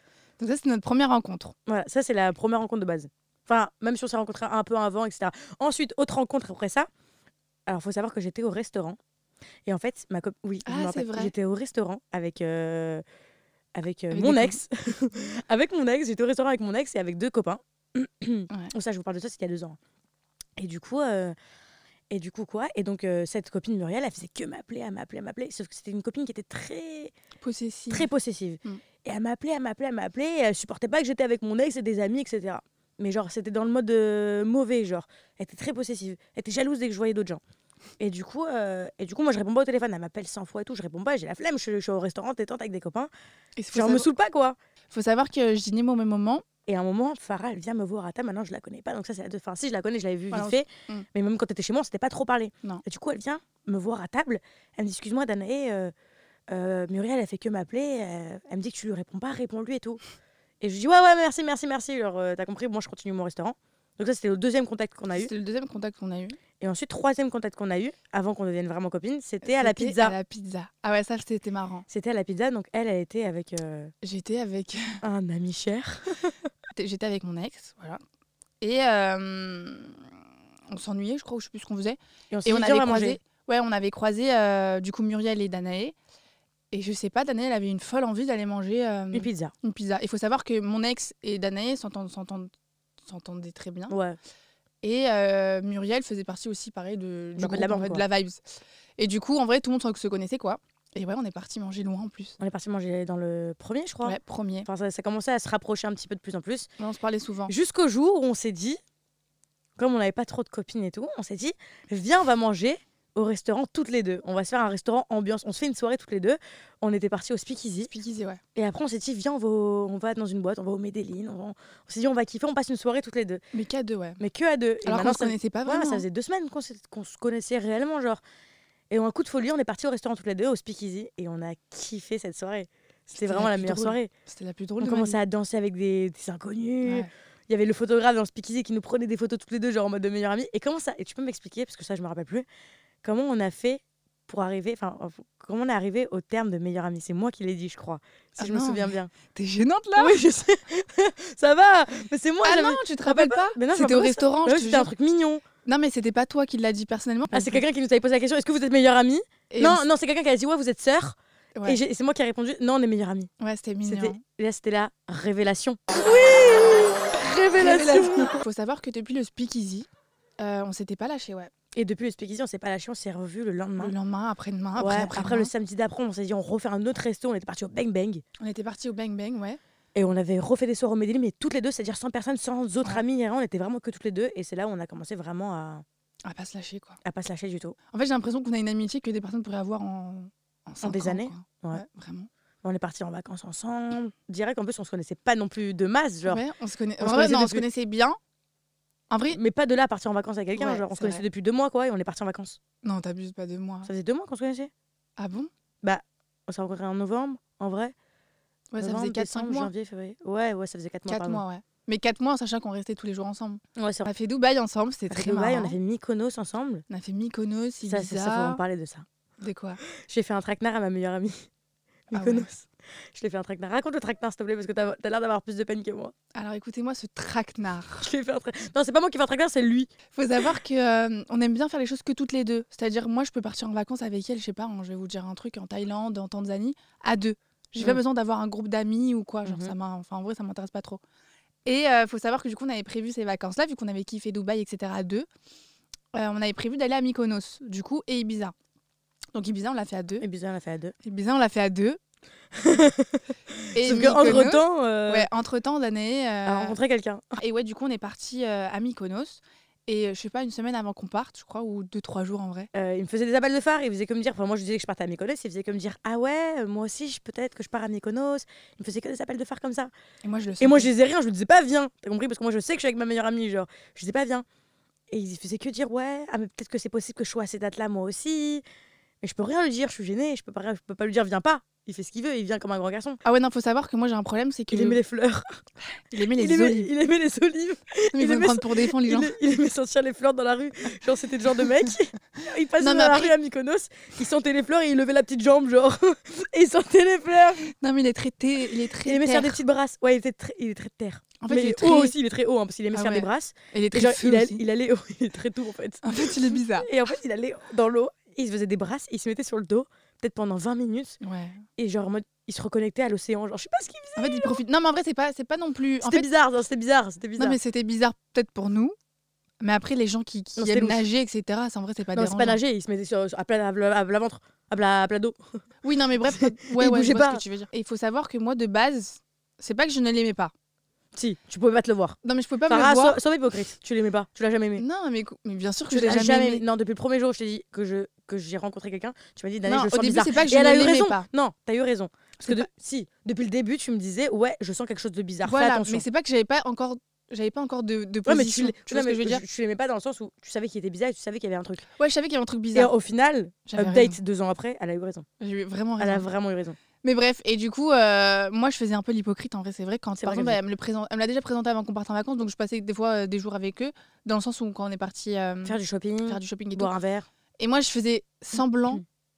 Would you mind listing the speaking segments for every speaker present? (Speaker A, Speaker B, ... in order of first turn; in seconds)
Speaker A: 0.4-1.5, 10.6-11.3, 14.1-14.6, 27.4-28.1, 43.6-44.1, 44.9-46.4, 50.3-51.0, 65.1-66.4, 69.4-71.8, 74.0-75.0, 76.7-78.0, 78.6-80.1, 80.7-86.0, 86.7-92.5, 93.0-93.9, 94.8-98.4, 99.0-102.3, 104.0-104.7, 106.8-107.5, 117.9-118.4, 123.5-124.2, 124.8-126.0, 133.1-135.2, 136.8-137.1, 148.4-150.2, 152.4-154.9, 155.6-157.6, 159.5-159.8, 163.4-164.2, 167.6-169.9, 170.4-171.5, 173.8-175.5, 178.4-179.6, 186.2-187.0, 187.9-192.3, 196.3-198.2, 199.1-199.4, 200.5-201.2, 202.8-203.9, 205.2-205.5, 208.7-209.7, 211.1-215.8, 216.9-218.6, 219.4-219.8, 222.1-222.5, 226.3-228.1, 230.1-241.0, 241.6-245.3, 246.1-248.5, 249.3-250.2, 251.0-252.0, 253.7-256.8, 257.4-262.7, 270.2-270.9, 283.2-285.0, 286.1-286.9, 288.1-289.3, 292.8-293.3, 297.7-299.6, 301.4-302.1, 302.9-304.6, 306.0-306.9, 311.2-311.6, 314.1-316.2, 317.4-318.9, 319.6-322.6, 325.8-330.5, 332.2-333.2, 334.8-336.6, 339.6-341.3, 342.4-342.7, 345.4-349.4, 351.9-352.9, 353.7-354.2, 355.4-356.2, 357.0-366.9, 367.6-369.0
Speaker B: 1.6-6.9, 7.7-9.0, 9.7-13.0, 13.8-19.8, 20.6-21.3, 22.1-27.1, 27.9-37.4, 38.0-43.1, 43.7-44.5, 46.6-55.9, 56.5-60.0, 60.6-65.3, 66.6-70.2, 71.9-73.9, 75.0-76.3, 82.3-83.2, 89.1-89.5, 93.9-94.2, 97.4-98.0, 102.4-106.7, 107.5-108.8, 109.8-117.9, 118.5-123.4, 124.2-128.2, 128.9-134.1, 134.8-142.4, 143.0-149.1, 150.0-155.4, 157.3-163.3, 163.8-168.3, 171.8-173.9, 174.8-178.2, 179.9-185.8, 187.0-187.8, 190.8-191.8, 192.6-196.4, 197.0-197.6, 199.3-202.6, 203.8-204.7, 205.8-207.9, 208.8-211.4, 213.8-214.1, 215.1-216.8, 217.8-219.1, 220.0-221.5, 222.1-226.1, 228.0-229.9, 239.4-239.7, 250.2-250.9, 252.5-255.3, 256.4-257.4, 262.7-269.9, 270.6-274.4, 275.1-278.6, 279.2-283.2, 284.7-285.6, 286.3-297.7, 299.0-311.2, 311.8-314.6, 316.0-317.6, 320.6-321.0, 322.1-325.4, 326.3-327.4, 331.1-334.8, 335.9-346.0, 348.2-351.9, 352.7-355.2, 356.0-356.8, 360.2-360.6, 365.6-367.3